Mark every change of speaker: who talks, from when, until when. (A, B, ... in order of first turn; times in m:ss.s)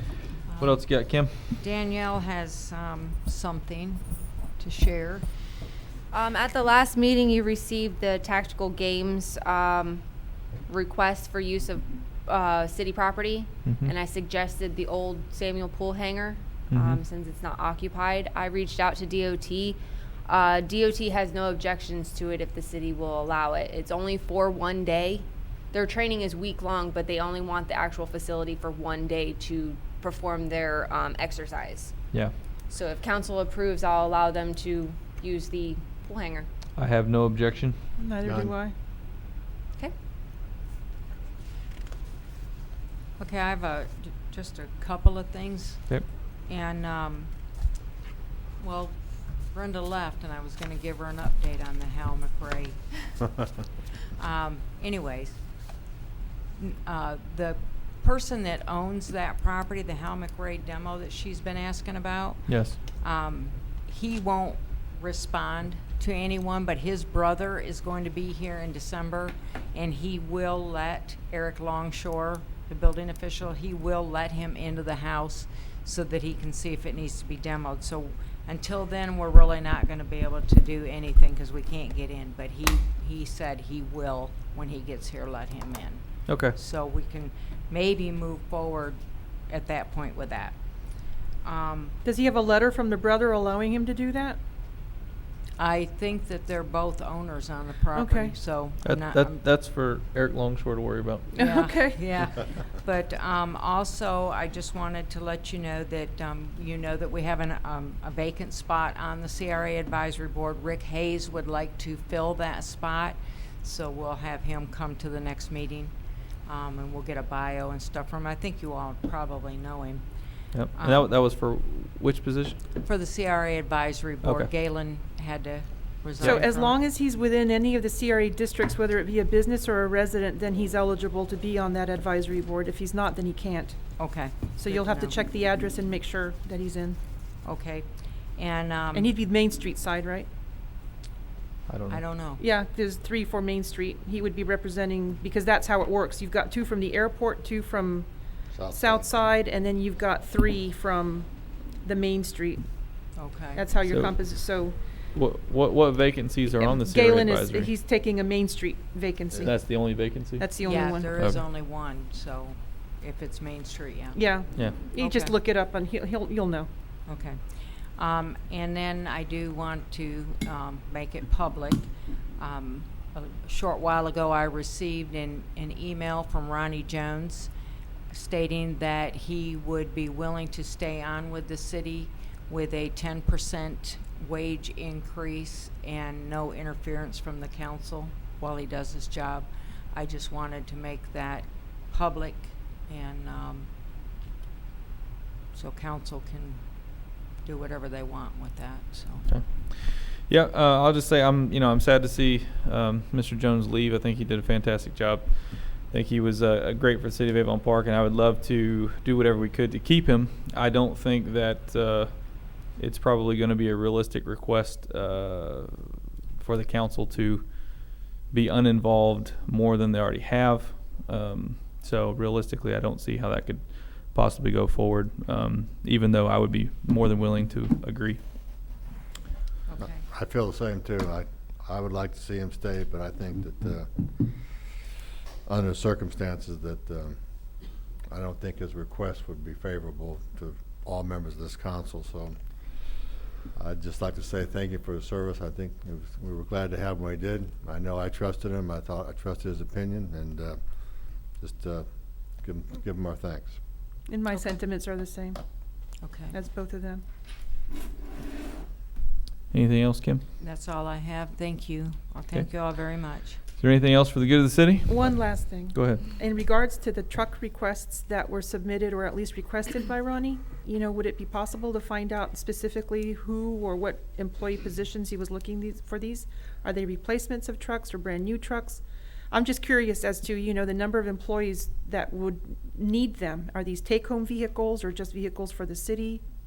0:00.5-0:05.3 A
0:00.6-0:01.5 B
0:06.1-0:10.0 C
0:10.7-0:31.9 C
0:13.6-0:13.9 B
0:16.7-0:17.0 B
0:32.7-0:36.5 C
0:36.8-0:37.8 B
0:38.0-0:38.7 D
0:38.2-0:38.5 E
0:43.2-0:47.3 A
0:48.6-0:53.3 A
0:54.1-0:55.4 A
0:56.6-1:32.0 A
1:02.5-1:02.8 B
1:26.3-1:26.6 B
1:32.0-1:34.4 D
1:35.6-1:39.4 A
1:37.9-1:38.4 D
1:38.8-1:41.3 B
1:41.3-1:55.9 A
1:41.4-1:42.0 D
1:56.4-2:00.0 A
2:00.5-2:02.6 B
2:00.7-2:01.1 A
2:02.8-2:06.8 A
2:04.2-2:04.5 B
2:06.2-2:13.8 D
2:14.0-2:15.2 A
2:14.6-2:17.0 D
2:17.4-2:19.1 A
2:19.0-2:20.3 D
2:21.7-2:22.0 B
2:21.9-2:22.4 A
2:22.4-2:28.1 D
2:28.5-2:29.1 E
2:28.7-2:31.3 D
2:31.8-2:32.6 D
2:33.2-2:33.7 A
2:33.6-2:34.8 D
2:33.8-2:37.7 B
2:36.6-2:41.2 D
2:39.4-2:40.5 B
2:40.6-2:45.3 A
2:41.1-2:41.4 B
2:44.2-2:46.7 D
2:47.1-2:57.5 A
2:58.1-3:13.7 A
3:15.5-3:16.6 A
3:17.4-3:19.4 A
3:19.3-3:48.3 B
3:49.7-3:50.0 A
3:49.8-3:53.9 E
3:55.5-3:57.2 E
3:58.1-4:02.4 E
4:03.6-4:10.6 E
4:11.4-4:11.9 E
4:12.4-4:13.6 E
4:14.1-4:15.4 D
4:16.0-4:16.4 A
4:16.3-4:17.0 D
4:19.5-4:20.2 B
4:20.4-4:23.4 A
4:23.4-4:26.1 B
4:24.9-4:46.2 D